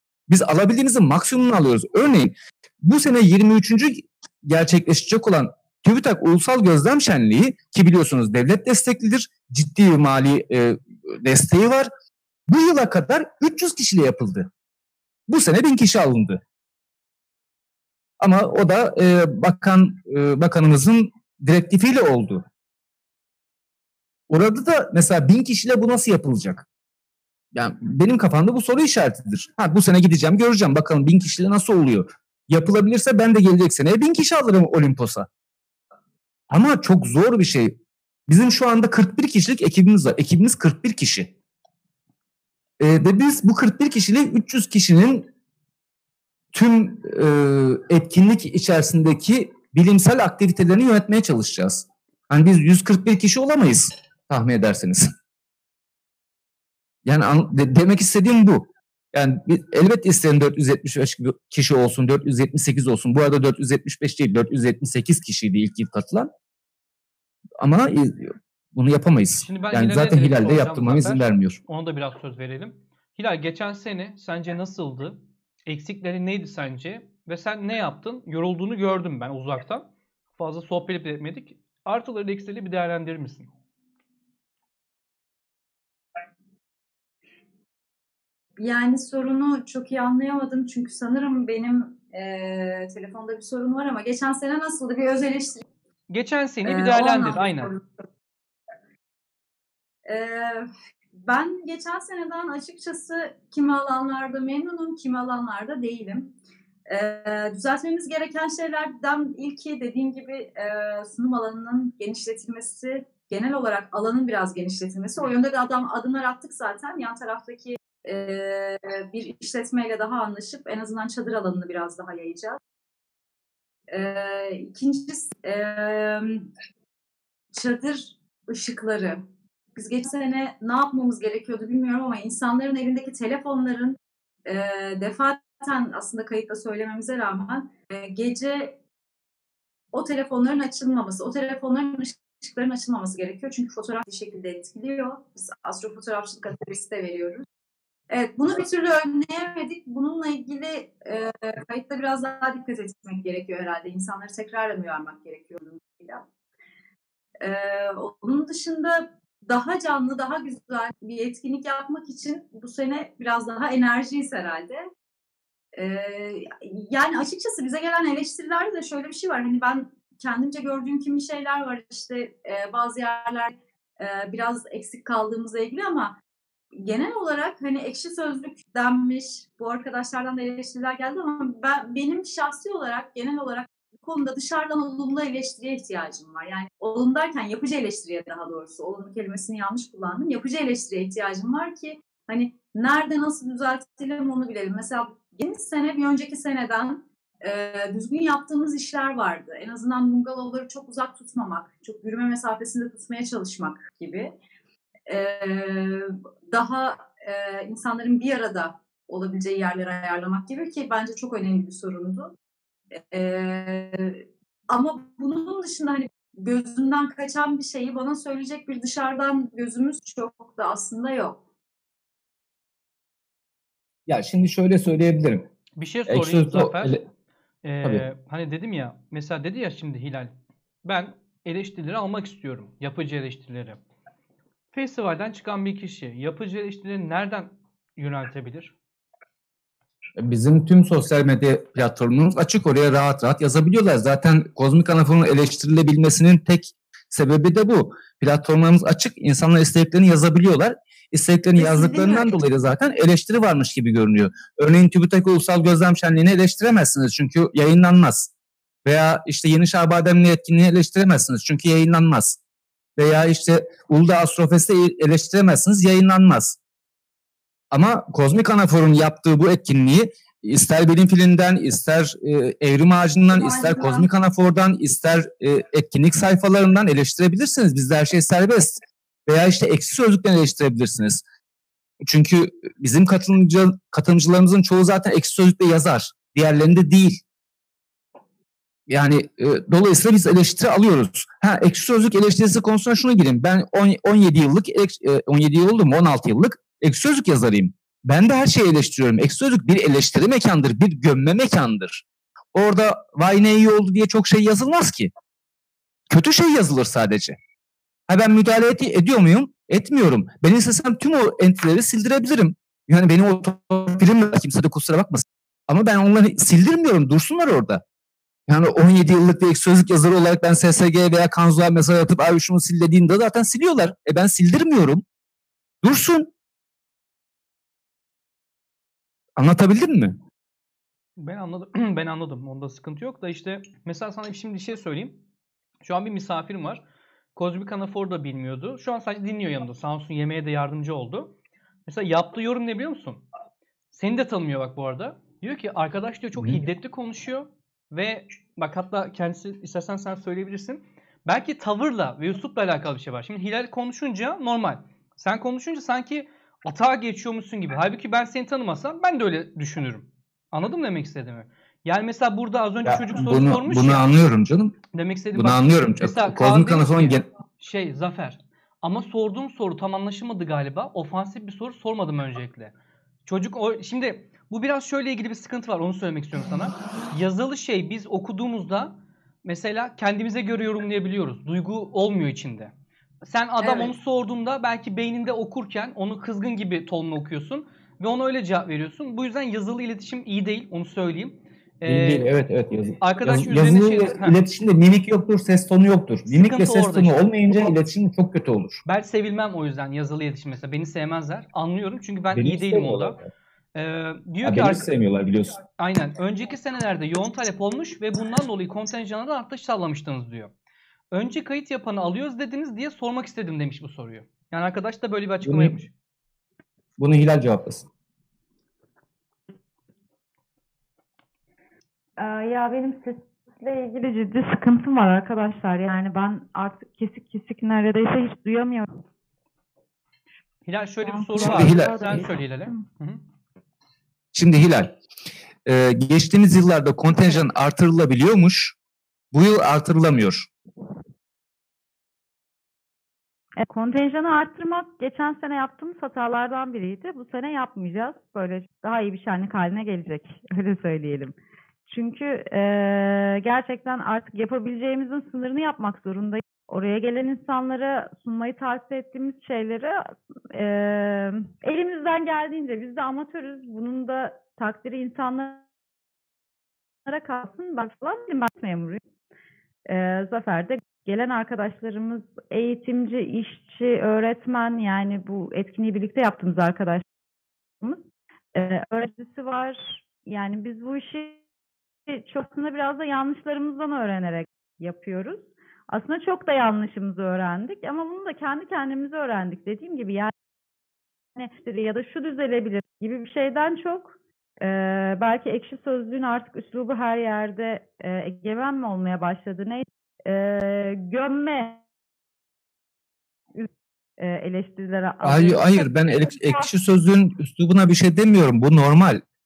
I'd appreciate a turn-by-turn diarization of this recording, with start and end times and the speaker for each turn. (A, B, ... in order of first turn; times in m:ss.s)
0:00.3-0:11.9 A
0:12.5-0:14.5 A
0:15.3-0:16.4 A
0:18.2-0:22.5 A
0:24.3-0:26.7 A
0:27.5-0:35.3 A
0:36.5-0:41.3 A
0:42.8-0:45.3 A
0:46.5-0:55.1 A
0:57.0-1:06.3 A
1:07.6-1:11.6 A
1:09.4-1:23.5 B
1:28.6-1:35.6 C
1:36.1-1:37.7 B
1:36.6-1:37.8 C
1:40.0-1:40.7 C
1:41.2-1:46.3 C
1:46.9-2:02.6 C
2:03.9-2:06.5 C
2:07.5-2:09.2 C
2:09.8-2:18.8 C
2:19.9-2:27.4 C
2:28.1-2:36.3 C
2:37.4-2:44.9 C
2:45.7-2:56.2 C
2:56.7-3:24.3 C
3:25.1-3:32.3 C
3:32.9-3:41.4 C
3:44.1-3:45.5 A
3:45.8-3:47.0 B
3:46.1-3:47.0 A
3:47.6-3:50.3 B
3:50.8-3:53.8 B
3:54.7-3:58.7 B
4:00.2-4:18.3 A
4:11.6-4:12.4 C
4:18.8-4:22.4 A
4:23.0-4:26.6 A
4:27.7-4:41.2 A
4:33.3-4:34.1 C
4:42.0-4:47.2 A
4:48.9-5:05.1 A
5:06.1-5:07.4 A
5:08.1-5:17.8 A
5:18.5-5:25.0 A
5:25.8-5:26.3 A
5:29.4-5:30.2 A
5:31.2-5:35.2 B
5:35.8-5:36.8 B
5:37.4-5:41.3 B
5:41.9-5:43.2 B
5:43.9-6:04.1 B
5:46.4-5:46.6 A
6:02.8-6:04.8 A
6:04.9-6:12.7 B
6:05.4-6:07.2 A
6:13.2-6:18.9 B
6:19.4-6:22.7 B
6:23.2-6:32.3 B
6:23.6-6:23.9 C
6:31.8-6:38.8 A
6:33.0-6:34.4 B
6:36.3-6:37.7 B
6:38.9-6:43.2 B
6:42.3-6:43.3 A
6:43.8-6:44.9 B
6:44.4-6:45.6 A
6:45.8-6:50.5 B
6:51.1-6:55.9 B
6:55.4-6:55.8 A
6:57.0-6:57.9 A
7:02.2-7:08.9 D
7:10.7-7:13.2 B
7:11.0-7:12.8 D
7:11.4-7:12.1 A
7:14.3-7:14.9 A
7:15.7-7:18.8 A
7:19.3-7:20.5 A
7:23.6-7:31.4 D
7:31.9-7:45.6 D
7:47.1-7:49.0 D
7:49.9-7:57.0 D
7:57.8-8:01.4 D
8:02.1-8:10.3 D
8:11.4-8:21.8 D
8:23.5-8:26.7 D
8:25.2-8:29.2 A